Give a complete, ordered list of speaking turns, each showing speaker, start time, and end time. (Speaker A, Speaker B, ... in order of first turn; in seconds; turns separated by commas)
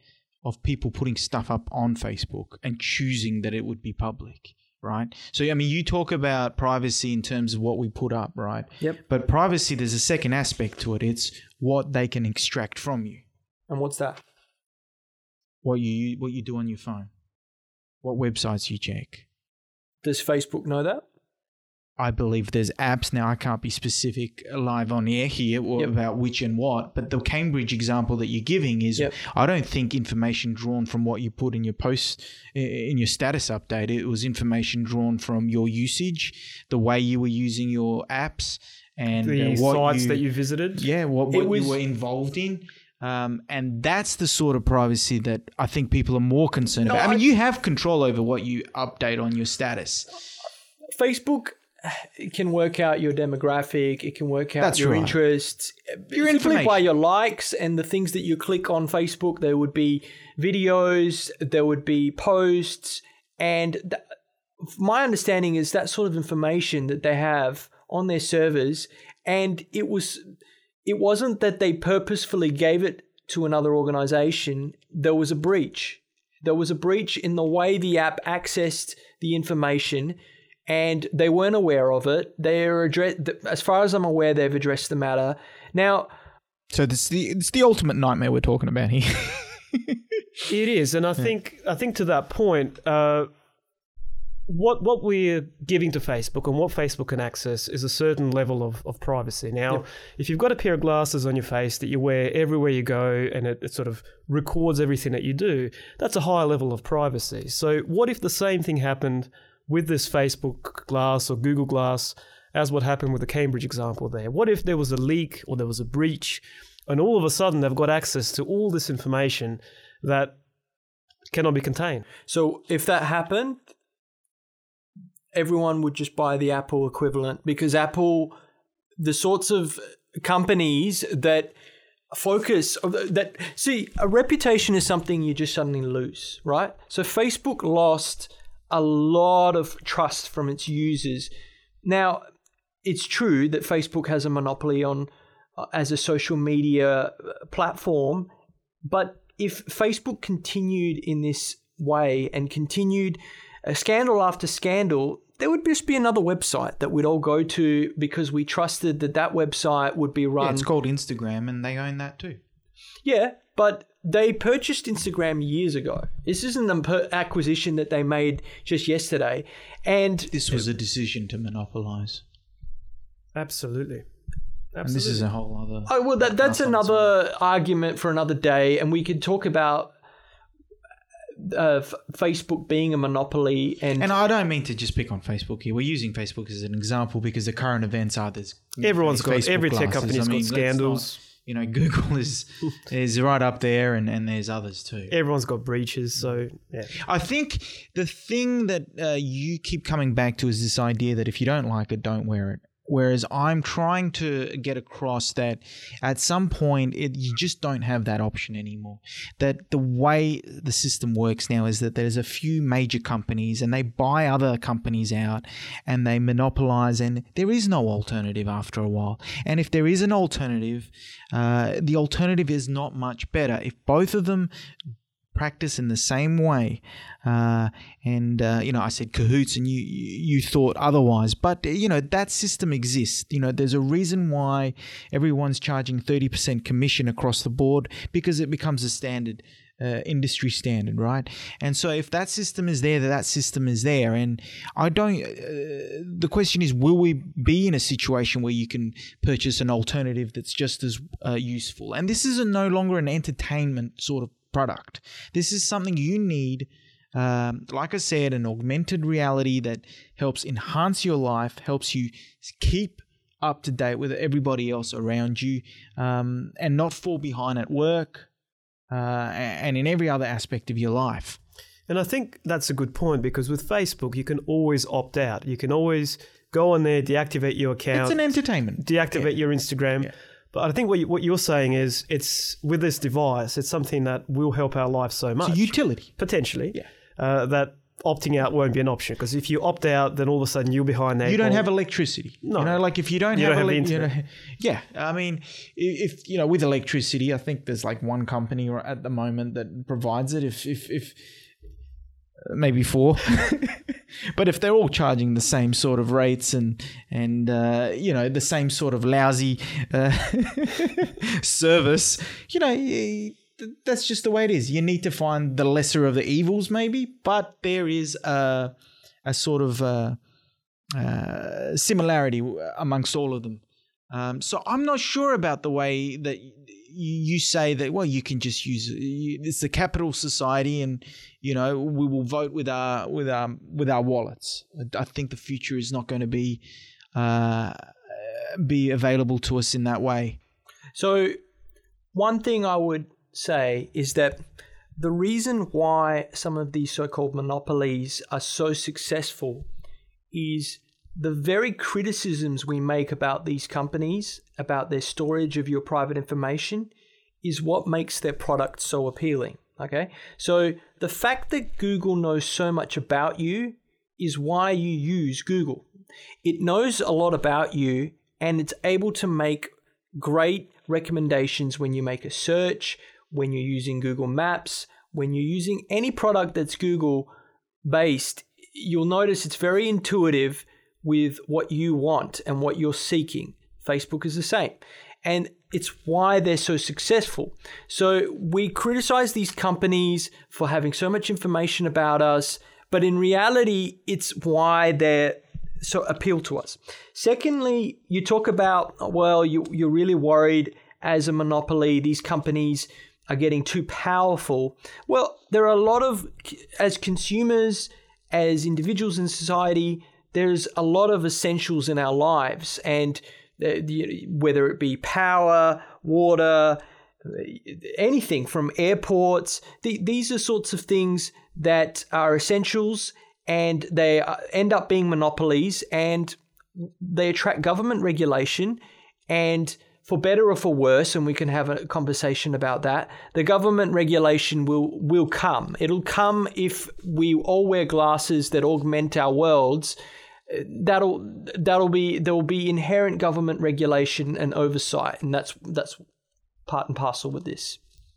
Speaker A: 0.4-13.2, Speaker B: 13.7-14.2, Speaker A: 15.6-17.1, Speaker A: 18.0-19.2, Speaker B: 20.0-21.0, Speaker A: 22.0-40.2, Speaker C: 39.2-40.9, Speaker A: 40.7-50.1, Speaker B: 41.3-41.8, Speaker B: 46.8-47.2, Speaker B: 50.9-64.0, Speaker A: 54.6-55.2, Speaker A: 56.1-56.8, Speaker B: 64.6-70.2, Speaker B: 70.8-86.1, Speaker A: 86.7-90.4, Speaker C: 90.5-93.3, Speaker C: 94.5-120.4, Speaker C: 121.3-122.1, Speaker B: 122.3-123.6, Speaker B: 125.3-128.3, Speaker B: 129.0-131.5, Speaker B: 132.1-141.3, Speaker B: 141.8-142.2, Speaker B: 142.8-148.3, Speaker B: 148.8-160.7, Speaker A: 160.4-162.4, Speaker B: 163.0-170.5, Speaker A: 170.3-172.2, Speaker C: 173.3-174.1, Speaker C: 174.7-175.3, Speaker A: 174.8-177.1, Speaker B: 175.9-179.9, Speaker B: 181.4-184.1, Speaker A: 184.0-195.1, Speaker C: 188.8-191.2, Speaker C: 195.1-197.0, Speaker A: 197.0-224.5, Speaker A: 225.3-268.3, Speaker A: 268.9-271.4, Speaker C: 271.9-278.2, Speaker A: 277.9-279.3, Speaker C: 278.8-291.6, Speaker A: 285.4-286.2, Speaker A: 291.2-301.2, Speaker C: 292.4-292.8, Speaker C: 293.3-294.1, Speaker A: 302.4-318.7, Speaker A: 319.2-320.2, Speaker A: 320.9-336.6, Speaker A: 337.1-340.4, Speaker B: 340.9-341.4, Speaker B: 342.1-344.4, Speaker B: 345.0-349.7, Speaker B: 350.3-356.9, Speaker B: 357.4-365.9, Speaker B: 366.4-377.3, Speaker B: 377.8-440.0, Speaker B: 440.5-446.0, Speaker B: 446.7-447.8